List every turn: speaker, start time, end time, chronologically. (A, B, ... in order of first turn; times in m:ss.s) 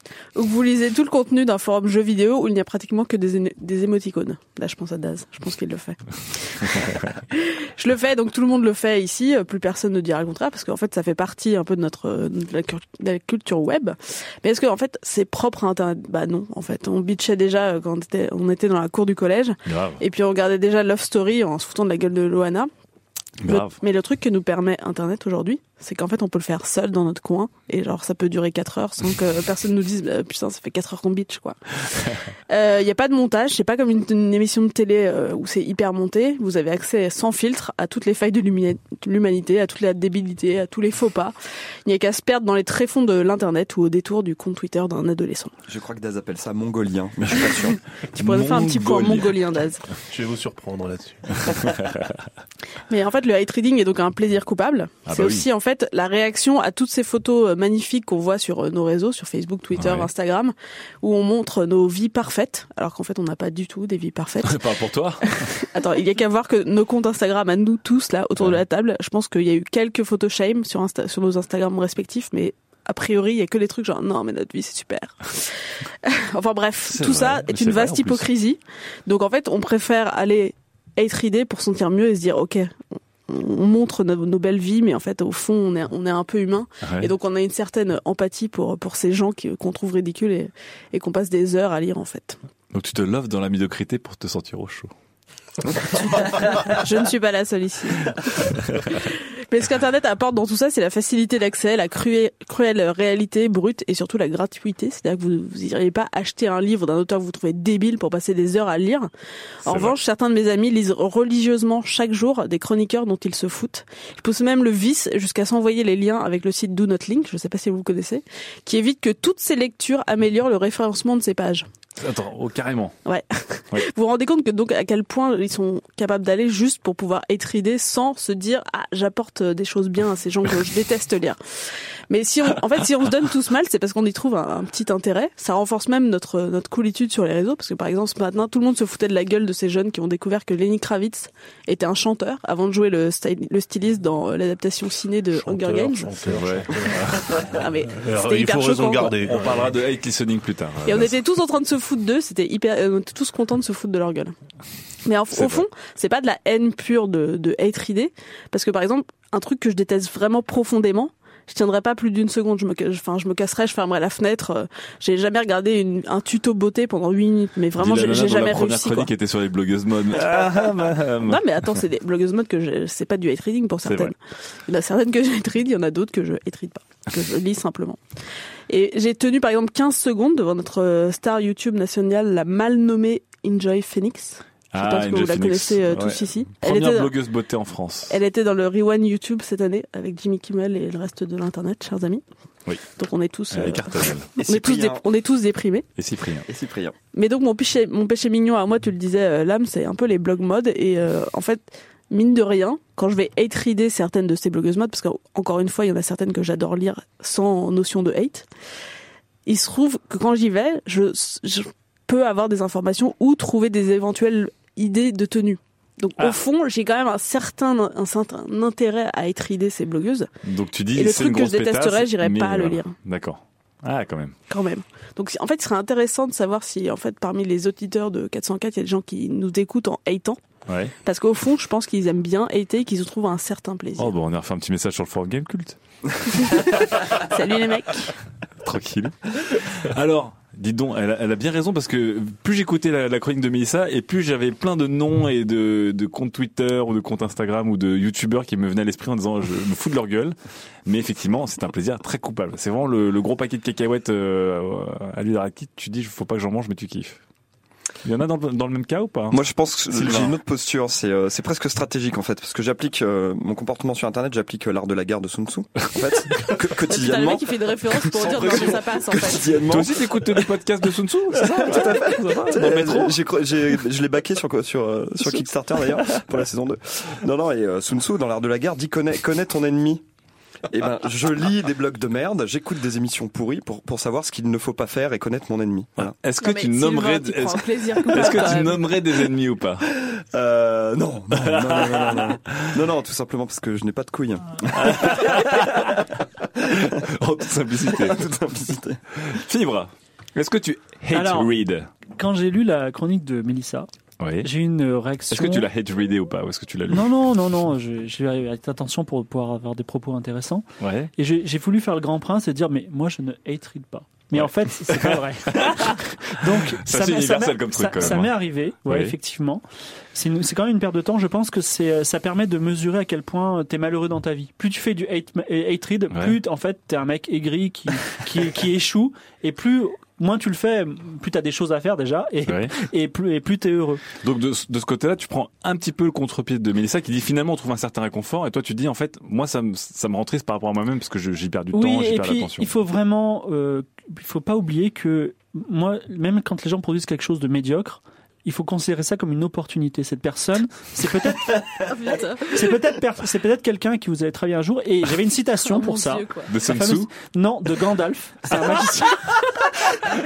0:00.3-0:22.7 A
0:19.7-0:20.0 B
0:23.4-0:23.8 B
0:23.5-0:31.8 A
0:32.5-0:41.3 A
0:41.8-0:45.5 A
0:45.7-0:47.8 C
0:47.3-0:47.5 B
0:48.1-0:49.8 A
0:48.1-0:49.4 B
0:50.1-0:51.7 D
0:51.5-0:52.1 B
0:52.9-1:32.4 A
0:55.0-0:55.4 B
0:59.7-1:00.1 B
1:04.4-1:05.5 B
1:08.4-1:08.6 B
1:16.8-1:18.3 B
1:26.8-1:27.1 B
1:32.7-1:34.9 B
1:35.9-1:49.1 A
1:49.6-2:01.7 A
1:49.6-1:49.9 B
2:02.0-2:03.0 B
2:03.0-2:11.4 A
2:12.1-2:26.3 A
2:25.3-2:29.7 D
2:26.3-2:27.6 B
2:27.2-2:29.3 A
2:29.2-2:31.1 B
2:30.8-2:34.3 A
2:35.0-2:49.1 A
2:35.3-2:35.6 B
2:47.8-2:51.8 B
2:51.2-2:54.2 A
2:53.8-2:54.1 B
2:54.7-2:58.0 A
2:58.7-3:07.2 A
3:04.7-3:08.2 B
3:08.1-3:12.2 A
3:13.0-3:15.9 A
3:13.5-3:14.3 B
3:14.4-3:15.0 C
3:16.0-3:16.5 B
3:16.5-3:17.0 C
3:17.1-3:28.5 A
3:29.4-3:40.3 A
3:40.4-3:44.3 B
3:40.9-3:42.9 A
3:44.5-3:50.4 A
3:50.7-3:50.9 B
3:51.0-3:54.2 A
3:54.0-3:55.8 B
3:56.3-3:58.1 A
3:58.6-4:17.2 B
4:18.0-4:19.4 B
4:19.3-4:30.5 C
4:19.9-4:20.3 B
4:26.9-4:29.6 A
4:28.4-4:28.8 B
4:29.6-4:33.2 B
4:31.3-4:40.0 C
4:35.2-4:36.2 B
4:40.7-4:46.2 C
4:46.0-4:49.8 B
4:46.4-4:48.9 A
4:49.8-4:57.0 C
4:51.3-4:52.7 B
4:54.7-4:56.0 B
4:56.8-4:58.2 B
4:57.8-4:59.0 C
4:59.2-5:01.9 B
5:01.1-5:01.5 E
5:02.1-5:03.9 E
5:04.2-5:04.5 B
5:04.4-5:05.7 E
5:05.3-5:07.2 B
5:06.9-5:34.0 E
5:10.8-5:11.1 B
5:14.3-5:19.1 B
5:26.1-5:26.4 B
5:32.4-5:32.7 B
5:34.2-5:42.7 B
5:41.7-5:51.6 E
5:51.8-5:52.7 A
5:52.4-6:00.0 E
5:55.6-5:56.5 A
5:56.5-5:57.1 B